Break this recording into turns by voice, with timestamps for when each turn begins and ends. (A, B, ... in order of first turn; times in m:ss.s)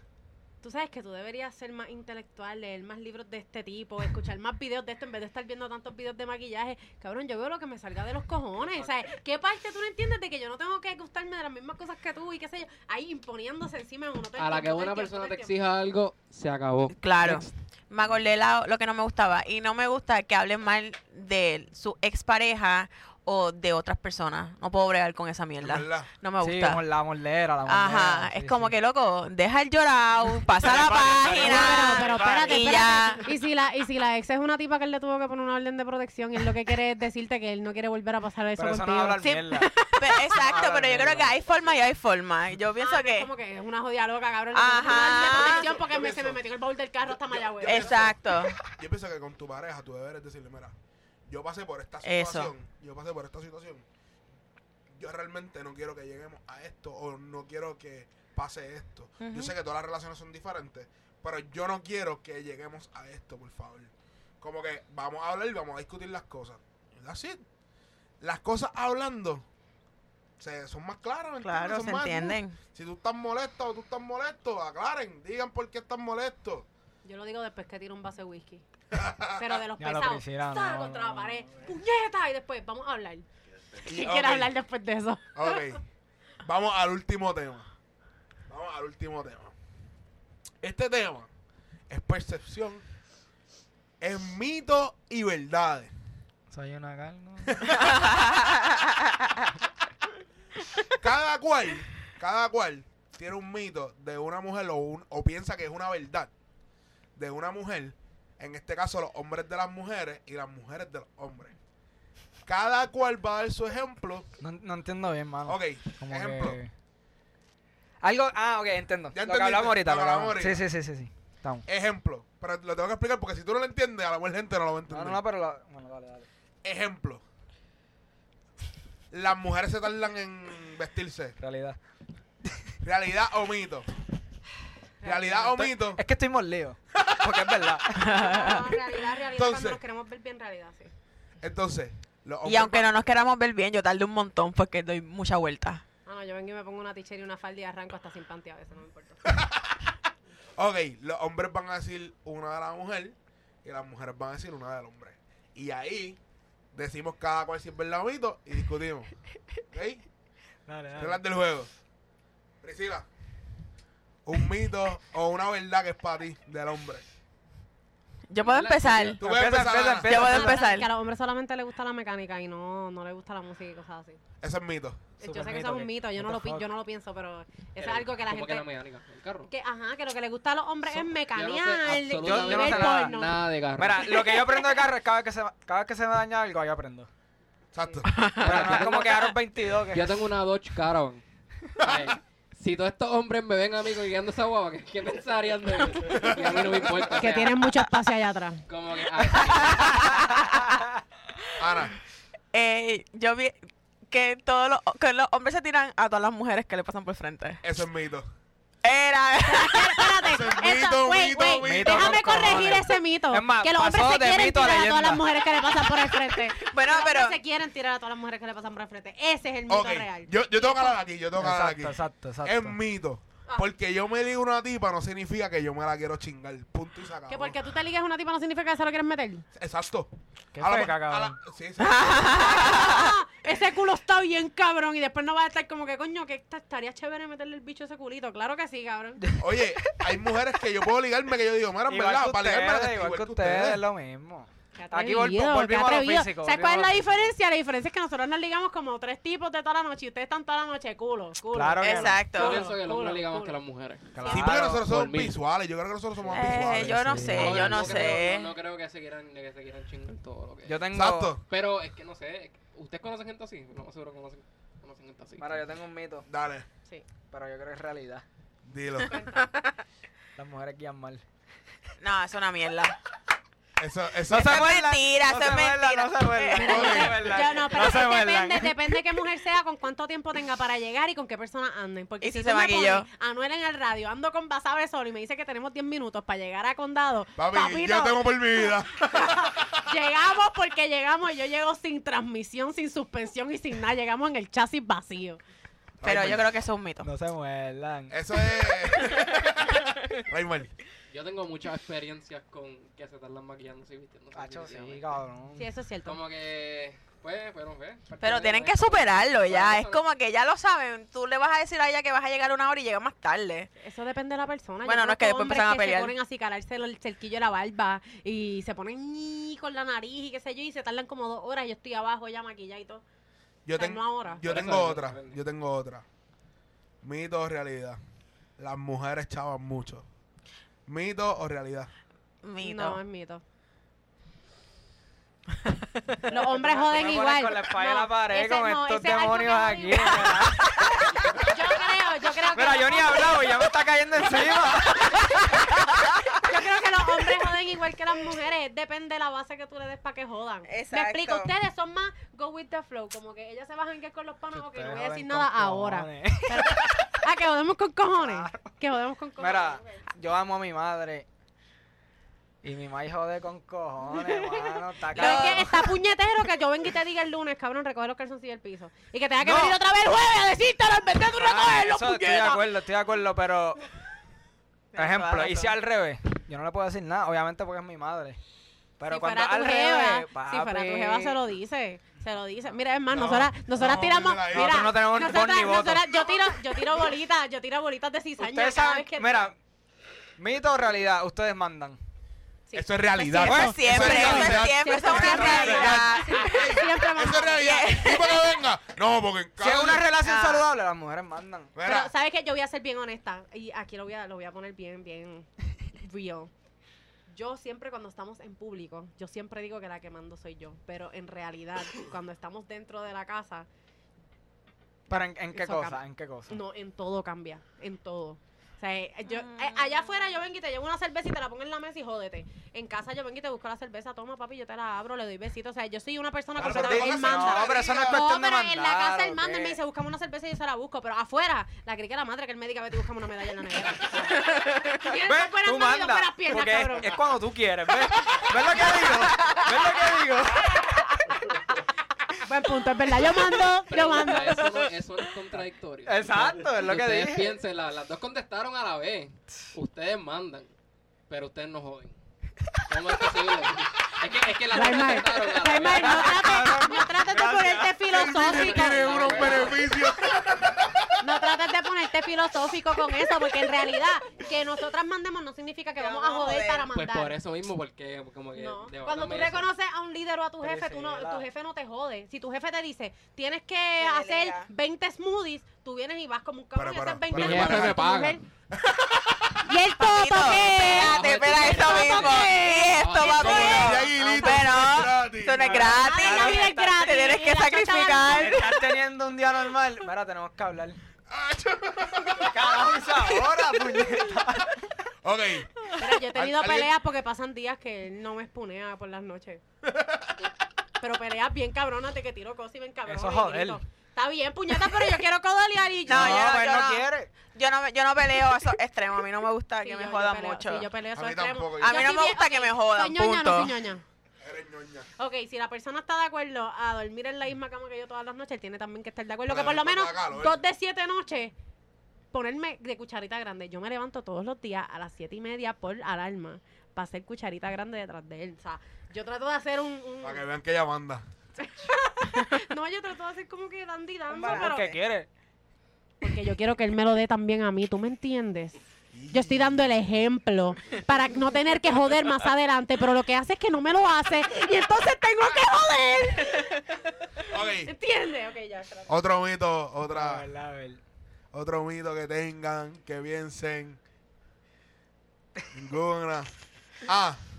0:00.6-0:15.5 A
0:14.4-0:17.4 B
0:17.0-0:26.8 C
0:25.6-0:26.1 D
0:26.4-0:28.7 E
0:27.7-0:33.3 C
0:30.6-0:33.0 E
0:31.3-0:39.5 A
0:38.6-0:39.7 E
0:39.8-0:43.3 C
0:40.3-0:41.4 E
0:42.8-0:48.2 A
0:44.5-0:45.8 C
0:45.2-0:46.4 D
0:47.0-0:50.8 D
0:47.6-0:48.6 C
0:51.3-0:53.9 D
0:52.0-0:52.5 C
0:54.9-1:07.4 D
0:59.2-0:59.5 C
1:08.2-1:09.5 D
1:10.4-1:16.7 D
1:11.4-1:12.6 C
1:17.0-1:18.6 A
1:18.9-1:19.6 D
1:19.4-1:23.3 A
1:19.8-1:21.7 E
1:23.8-1:25.7 A
1:23.8-1:24.5 D
1:25.4-1:25.8 D
1:26.4-1:27.7 D
1:28.5-1:29.5 D
1:30.6-1:31.3 D
1:31.9-1:32.8 D
1:34.0-1:35.9 D
1:36.5-1:38.0 E
1:37.5-1:38.1 D
1:38.0-1:38.9 C
1:41.0-1:46.3 D
1:47.2-1:51.6 D
1:52.5-1:54.3 D
1:54.4-1:56.7 E
1:55.5-1:56.6 D
1:58.0-2:01.7 E
1:59.1-2:00.7 D
2:01.7-2:05.2 D
2:04.9-2:06.3 E
2:06.6-2:07.2 D
2:09.1-2:11.4 D
2:11.4-2:11.8 E
2:12.8-2:13.9 D
2:15.0-2:15.6 A
2:15.0-2:16.0 D
2:15.4-2:18.5 E
2:17.0-2:17.4 D
2:18.0-2:18.7 C
2:18.2-2:20.9 A
2:19.4-2:19.8 D
2:21.4-2:22.9 D
2:22.4-2:25.8 C
2:26.1-2:29.2 A
2:29.3-2:29.9 D
2:30.6-2:36.2 D
2:36.7-2:39.1 D
2:39.7-2:40.0 D
2:40.7-2:41.2 E
2:41.0-2:41.7 D
2:42.6-2:43.1 D
2:44.2-2:47.0 D
2:48.3-2:49.2 C
2:48.4-2:49.2 B
2:49.2-2:50.2 D
2:49.2-2:50.7 E
2:50.0-2:50.9 C
2:50.2-2:54.2 A
2:54.4-2:55.1 D
2:55.2-2:58.7 A
2:55.2-2:56.7 E
2:57.8-2:59.5 B
2:59.5-3:03.5 A
3:01.2-3:04.2 B
3:02.2-3:03.2 E
3:03.8-3:07.1 E
3:07.7-3:08.1 D
3:08.1-3:09.2 C
3:08.4-3:10.2 E
3:08.4-3:09.3 B
3:09.9-3:11.2 B
3:11.8-3:17.8 B
3:16.1-3:17.0 D
3:17.2-3:18.6 A
3:18.7-3:20.2 B
3:19.3-3:20.8 C
3:21.6-3:22.0 D
3:22.5-3:23.6 C
3:24.1-3:27.6 C
3:27.6-3:28.3 D
3:28.8-3:30.2 C
3:29.4-3:41.0 A
3:30.2-3:32.2 D
3:31.6-3:35.3 E
3:36.5-3:37.4 C
3:39.7-3:47.6 D
3:41.4-3:42.8 E
3:47.3-3:49.5 A
3:49.5-3:52.7 D
3:50.6-3:51.4 E
3:51.8-3:53.2 C
3:52.3-3:59.3 A
3:59.2-4:00.0 E
3:59.4-4:03.8 D
4:01.9-4:07.3 E
4:04.8-4:13.6 A
4:11.5-4:12.2 E
4:11.8-4:12.7 C
4:12.3-4:15.4 B
4:14.2-4:17.3 D
4:14.3-4:14.9 E
4:16.3-4:18.5 C
4:16.4-4:17.9 E
4:17.2-4:20.8 B
4:20.7-4:21.3 E
4:20.9-4:21.4 D
4:21.5-4:25.6 B
4:25.4-4:26.3 E
4:26.3-4:26.7 D
4:27.3-4:28.2 E
4:28.6-4:29.2 D
4:29.0-4:29.5 A
4:30.4-4:31.2 E
4:32.0-4:33.0 C
4:33.8-4:34.7 D
4:34.3-4:39.0 E
4:34.3-4:37.6 C
4:36.6-4:55.4 A
4:36.6-4:37.3 D
4:42.2-4:43.1 C
4:47.4-4:49.8 D
4:56.0-4:56.5 D
4:56.0-4:57.1 C
4:57.0-4:58.2 E
4:58.1-5:00.7 D
5:01.1-5:05.2 B
5:04.4-5:05.7 E
5:05.6-5:06.2 A
5:06.0-5:10.0 B
5:08.2-5:13.7 C
5:13.8-5:23.0 A
5:14.8-5:16.2 C
5:23.7-5:26.0 D
5:23.8-5:24.4 A
5:24.3-5:25.4 B
5:27.0-5:28.0 D
5:28.6-5:30.1 D
5:30.9-5:31.9 D
5:32.4-5:33.0 C
5:32.6-5:33.4 A
5:36.3-5:41.4 E
5:36.3-5:40.7 A
5:41.3-5:43.7 A
5:42.5-5:45.6 E
5:46.4-6:00.1 A
5:50.7-5:51.6 C
5:54.5-5:57.2 E
5:58.2-5:58.8 E
5:59.4-6:01.3 E
6:02.6-6:05.9 E
6:04.1-6:12.6 A
6:05.1-6:05.9 C
6:09.4-6:09.8 E
6:11.3-6:13.8 E
6:14.9-6:15.8 C
6:15.0-6:18.4 E
6:19.0-6:21.4 E
6:19.1-6:29.5 A
6:23.1-6:25.0 D
6:24.5-6:26.3 E
6:28.4-6:29.6 E
6:30.4-6:32.0 E
6:32.7-6:37.9 A
6:32.7-6:40.1 D
6:33.4-6:34.6 E
6:33.5-6:37.0 C
6:35.2-6:35.9 E
6:37.6-6:38.6 C
6:39.6-6:41.7 E
6:40.2-6:40.6 C
6:41.8-6:42.1 D
6:41.8-6:46.5 A
6:47.3-6:53.7 A
6:55.1-6:56.6 E
6:55.1-7:17.2 A
6:59.3-7:00.4 C
7:06.6-7:08.2 D
7:06.6-7:09.8 E
7:14.6-7:15.0 C
7:15.1-7:20.9 E
7:19.4-7:19.7 C
7:20.5-7:21.6 A
7:22.3-7:24.8 A
7:23.9-7:30.7 B
7:24.2-7:24.6 C
7:26.1-7:27.6 E
7:31.3-7:32.2 B
7:32.9-7:36.6 B
7:34.7-7:39.8 A
7:35.7-7:38.2 E
7:38.1-7:41.3 D
7:38.3-7:39.8 B
7:41.2-7:47.4 A
7:46.0-7:46.9 C
7:46.9-7:49.7 B
7:48.5-7:58.4 A
7:50.6-7:51.5 E
7:54.0-7:54.7 C
7:56.8-7:58.1 D
7:57.3-7:58.4 B
7:58.7-7:59.7 D
7:59.6-8:04.6 A
8:00.0-8:08.8 C
8:00.7-8:04.0 B
8:03.4-8:05.9 D
8:05.6-8:08.6 A
8:05.8-8:07.2 E
8:08.3-8:11.0 E
8:11.3-8:12.7 D
8:12.4-8:14.9 E
8:15.2-8:15.7 D
8:16.0-8:19.6 A
8:16.3-8:16.9 D
8:19.8-8:20.4 D
8:21.0-8:26.6 A
8:23.1-8:23.8 E
8:26.1-8:30.9 C
8:26.1-8:27.3 E
8:29.8-8:34.0 A
8:31.1-8:32.1 D
8:31.8-8:33.8 C
8:34.4-8:35.1 D
8:35.2-8:41.5 A
8:39.5-8:40.6 D
8:42.3-8:50.4 A
8:50.2-8:51.2 D
8:51.6-8:55.0 A
8:54.3-8:55.3 E
8:56.2-8:58.8 A
8:59.1-8:59.8 D
8:59.3-9:09.2 A
9:07.5-9:07.9 D
9:09.1-9:10.5 D
9:10.1-9:11.0 E
9:11.5-9:14.0 D
9:15.7-9:17.4 D